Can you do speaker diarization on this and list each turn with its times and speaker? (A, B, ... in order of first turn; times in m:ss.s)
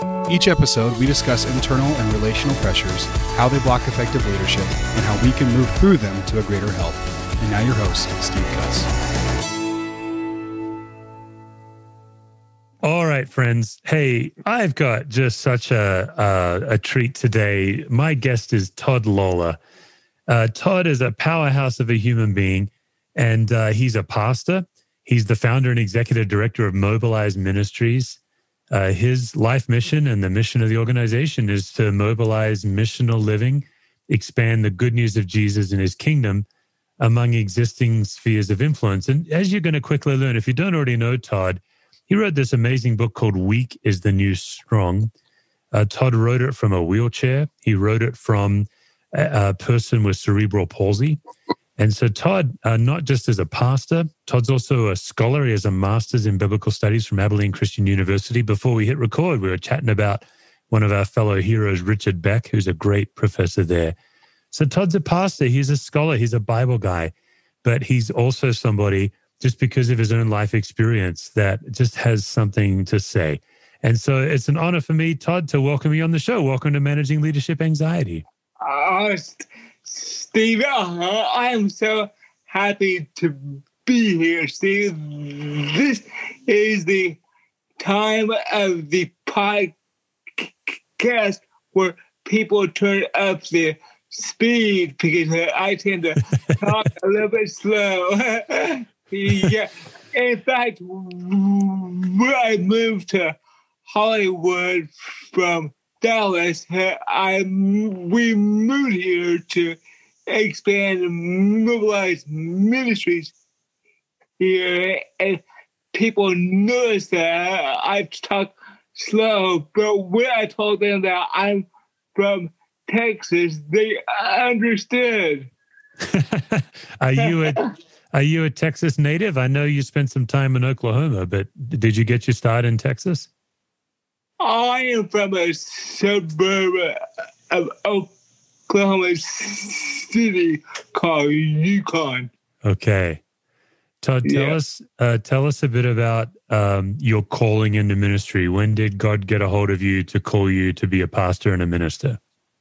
0:00.3-0:08.9 A
0:12.8-0:19.6 B
0:20.3-0:28.2 B
0:28.7-0:36.5 B
0:37.0-0:45.1 B
0:45.7-0:51.2 B
0:51.8-1:04.0 B
1:04.5-1:07.1 B
1:07.6-1:18.2 B
1:18.6-1:27.2 C
1:27.8-1:29.8 C
1:30.4-1:43.4 C
1:43.9-1:53.4 C
1:54.4-1:55.4 C
1:55.9-2:05.5 C
2:06.1-2:13.3 B
2:07.2-2:07.6 C
2:14.4-2:17.0 C
2:17.5-2:18.1 C
2:18.7-2:22.3 C
2:22.6-2:23.2 B
2:24.0-2:32.2 B
2:24.2-2:24.6 C